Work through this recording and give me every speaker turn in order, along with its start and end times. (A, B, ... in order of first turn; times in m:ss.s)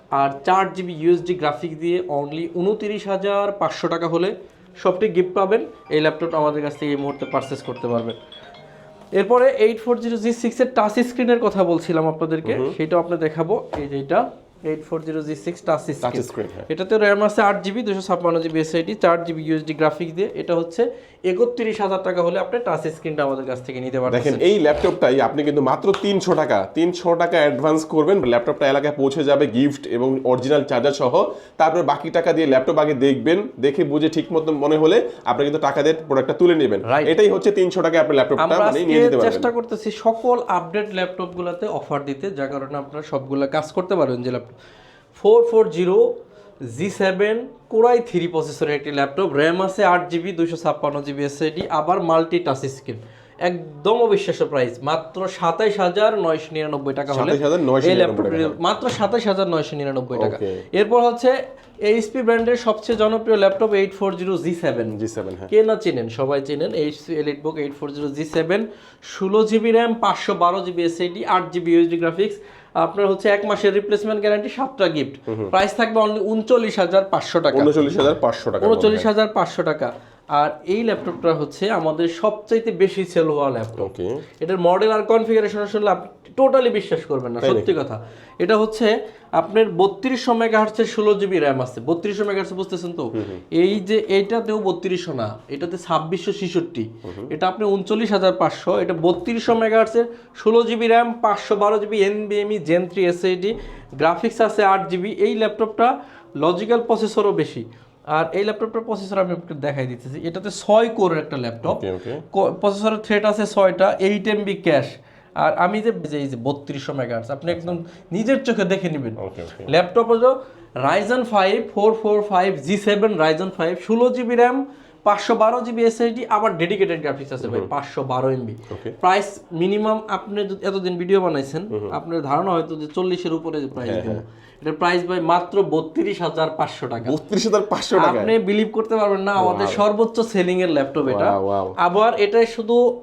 0:00.2-0:08.2 A
0:09.2-0:24.4 A
0:12.4-0:12.8 B
0:16.0-0:16.7 B
0:24.1-0:39.5 B
0:36.9-0:37.2 A
0:38.4-0:44.6 A
0:45.2-0:46.1 A
0:46.7-1:01.4 A
0:57.1-0:58.6 B
1:00.1-1:00.6 B
1:01.9-1:04.9 A
1:04.9-1:05.5 B
1:05.5-1:18.0 A
1:17.5-1:19.1 B
1:18.6-2:17.2 A
1:23.8-1:24.2 B
1:27.4-1:27.8 B
1:33.2-1:33.4 B
1:37.1-1:37.3 B
1:51.6-1:52.2 B
1:57.5-1:57.8 B
1:59.2-1:59.7 B
2:07.4-2:07.7 B
2:08.7-2:09.0 B
2:13.8-2:14.2 B
2:17.0-2:18.4 B
2:18.0-2:22.9 A
2:19.4-2:19.8 B
2:21.0-2:21.8 B